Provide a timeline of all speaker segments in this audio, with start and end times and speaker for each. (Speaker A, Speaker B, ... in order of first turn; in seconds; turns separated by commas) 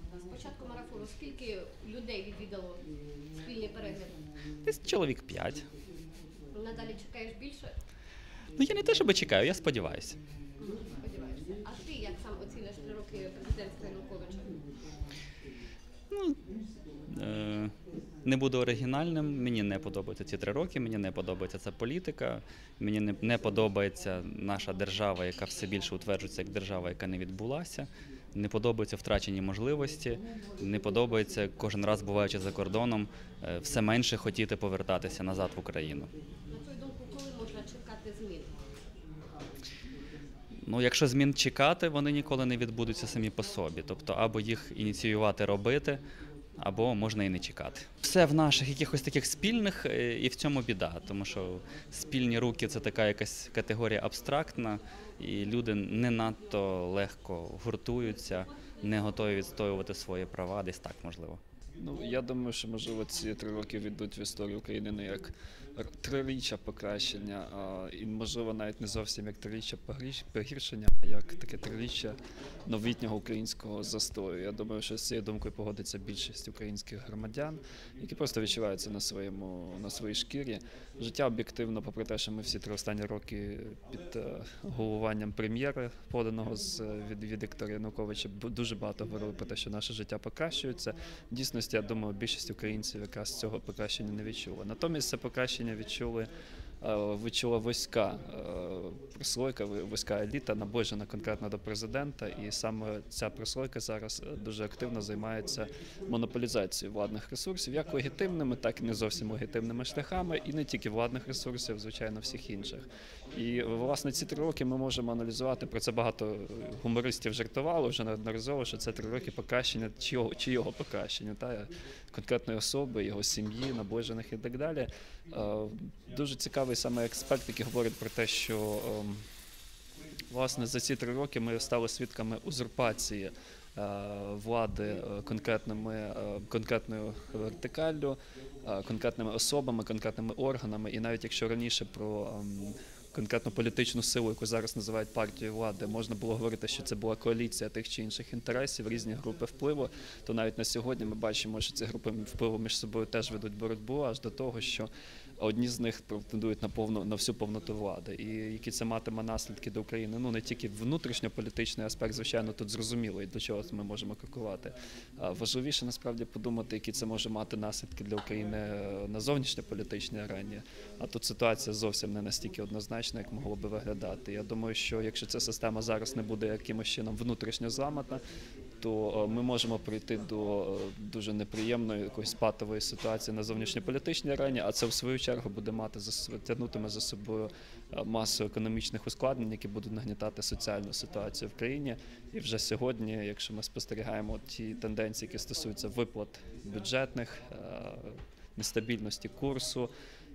Speaker A: 0.3-4.2, Speaker B: 4.6-5.7, Speaker A: 6.5-7.7, Speaker B: 8.6-10.2, Speaker A: 10.6-14.6, Speaker B: 16.1-16.4, Speaker B: 17.1-17.7, Speaker B: 18.2-36.1, Speaker A: 36.5-38.5, Speaker B: 40.7-46.0, Speaker B: 46.6-61.4, Speaker C: 61.8-129.2, Speaker C: 130.3-178.2, Speaker C: 178.8-199.9